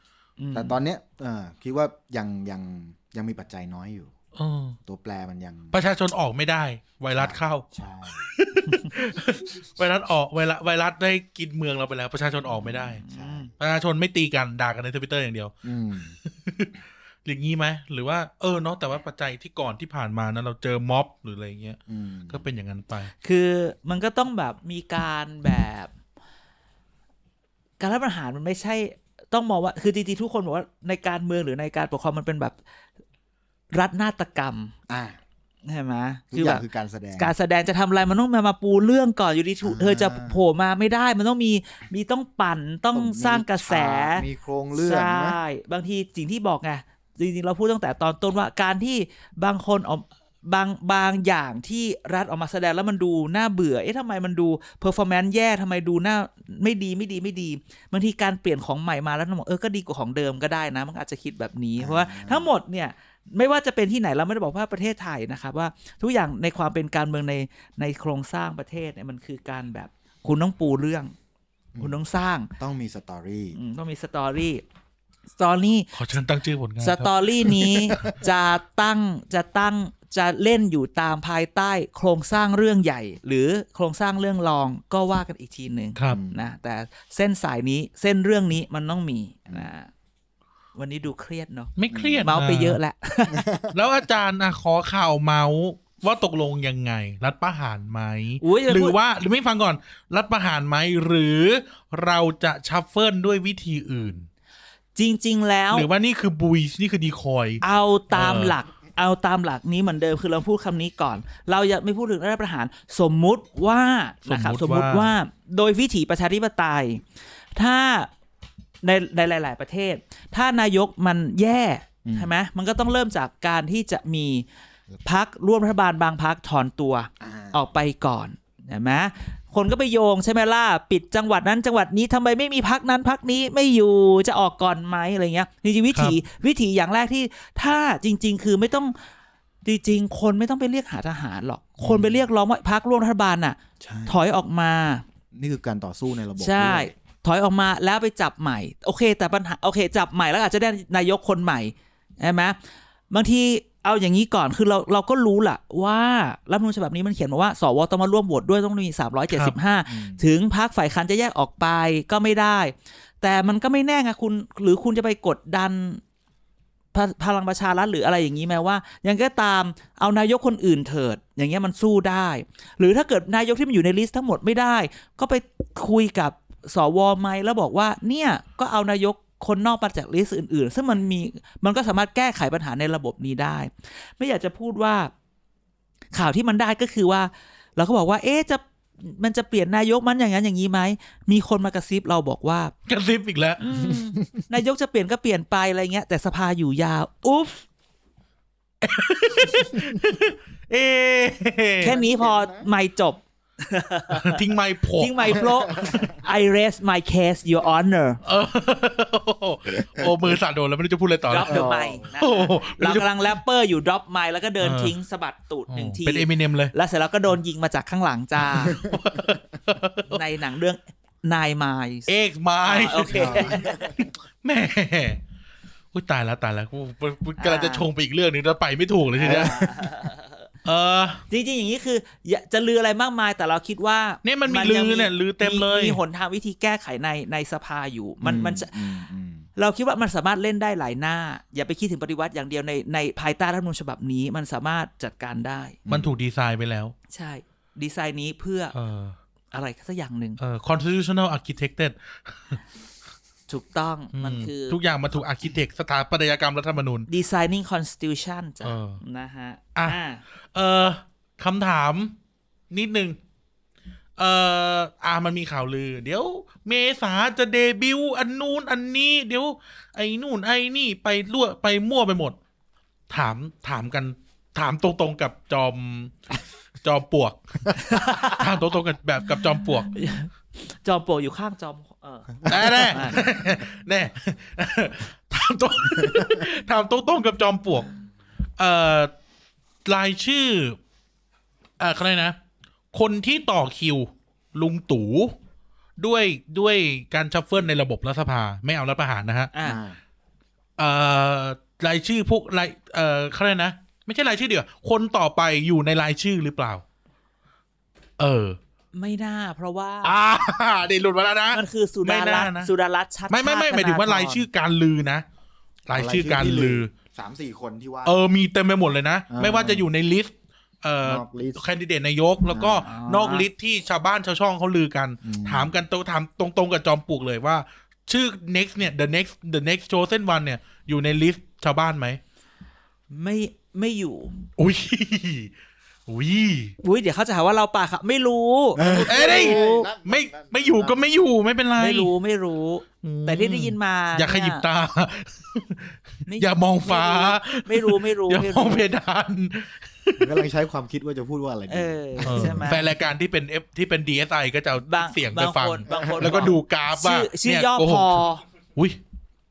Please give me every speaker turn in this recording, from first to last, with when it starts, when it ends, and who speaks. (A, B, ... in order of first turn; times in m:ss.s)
0:00.4-0:00.8 A
0:00.5-0:04.1 B
0:04.4-0:04.8 C
0:04.9-0:05.8 B
0:05.7-0:07.7 C
0:07.2-0:08.3 B
0:08.2-0:13.0 C
0:08.6-0:08.9 A
0:12.7-0:13.5 A
0:13.1-0:13.5 B
0:13.6-0:23.1 C
0:15.6-0:16.2 B
0:21.9-0:22.4 B
0:23.2-0:25.9 A
0:27.8-0:32.6 A
0:33.7-0:34.7 A
0:34.9-0:35.2 B
0:35.7-0:36.6 A
0:36.3-0:37.3 B
0:37.2-0:44.2 A
0:39.6-0:40.4 B
0:42.9-0:45.4 B
0:44.8-1:11.1 A
1:01.8-1:02.5 B
1:11.8-1:12.5 A
1:12.6-1:13.6 B
1:13.6-1:14.6 A
1:15.4-1:15.9 A
1:15.9-1:18.0 C
1:16.8-1:29.9 A
1:17.7-1:18.2 B
1:26.0-1:26.2 C
1:26.1-1:26.4 B
1:30.8-1:33.5 A
1:31.8-1:32.8 C
1:31.9-1:32.2 B
1:33.3-1:33.8 B
1:33.7-1:44.3 C
1:38.4-1:39.0 A
1:45.0-1:45.9 A
1:45.7-1:48.6 C
1:47.6-1:57.0 A
1:54.3-1:55.1 C
1:57.6-1:58.1 A
1:58.8-2:04.5 A
2:02.0-2:02.3 B
2:05.0-2:19.0 A
2:07.2-2:07.6 B
2:15.9-2:16.2 C
2:19.6-2:25.0 A
2:21.8-2:22.2 B
2:23.8-2:24.2 B
2:25.3-2:26.9 B
2:26.4-2:32.6 A
2:33.1-2:46.0 A
2:39.3-2:39.6 C
2:39.9-2:40.3 B
2:46.9-3:05.1 A
3:06.1-3:12.7 A
3:12.9-3:13.6 C
3:13.6-3:17.6 A
3:13.7-3:14.3 B
3:18.8-3:22.0 C
3:21.8-3:24.4 A
3:21.9-3:22.6 B
3:24.1-3:26.1 C
3:25.0-3:28.2 A
3:25.3-3:26.2 B
3:28.2-3:33.4 C
3:31.3-3:38.8 A
3:31.4-3:32.0 B
3:34.6-3:34.9 C
3:35.7-3:36.7 C
3:38.6-3:40.2 C
3:38.6-3:39.0 B
3:40.1-3:42.1 A
3:42.1-3:45.2 C
3:42.6-3:43.9 A
3:43.1-3:44.1 B
3:45.9-3:49.9 C
3:47.4-3:47.9 A
3:49.2-3:50.5 A
3:49.2-3:49.7 B
3:50.6-3:51.2 C
3:51.3-3:59.0 A
3:54.2-3:56.0 C
3:58.2-3:59.5 B
3:59.6-4:05.8 A
4:05.9-4:06.1 B
4:05.9-4:06.9 C
4:07.1-4:08.7 A
4:08.7-4:09.2 C
4:09.5-4:10.4 A
4:10.4-4:12.6 C
4:13.5-4:14.8 A
4:14.1-4:17.1 C
4:17.1-4:20.2 A
4:18.6-4:19.0 C
4:20.5-4:22.2 C
4:22.7-4:23.2 C
4:24.2-4:32.4 C
4:33.1-4:36.1 C
4:36.8-4:39.9 C
4:37.8-4:38.5 A
4:39.9-4:43.2 A
4:42.4-4:43.2 B
4:42.5-4:47.9 C
4:48.6-4:49.1 C
4:49.9-4:50.8 C
4:51.8-4:52.4 C
4:52.9-4:55.3 C
4:56.0-4:59.5 C
4:59.5-4:59.8 A
4:59.6-5:00.0 B
5:00.8-5:06.8 C
5:08.2-5:08.6 C
5:08.9-5:10.2 A
5:10.0-5:12.7 C
5:11.5-5:14.4 A
5:13.3-5:15.2 C
5:15.9-5:16.9 C
5:15.9-5:18.2 B
5:18.0-5:32.2 C
5:19.3-5:19.9 B
5:21.0-5:21.6 B
5:22.5-5:22.9 B
5:22.8-5:23.5 A
5:25.2-5:25.7 B
5:33.1-5:34.5 A
5:34.6-5:35.5 C
5:36.1-5:36.8 C
5:36.8-5:39.9 A
5:38.8-5:41.0 B
5:38.8-5:42.1 C
5:41.8-5:44.6 A
5:43.0-5:50.4 C
5:46.3-5:48.9 A
5:50.2-5:52.9 B
5:51.7-5:52.9 A
5:52.2-5:58.2 C
5:54.9-5:58.4 A
5:55.9-5:56.5 B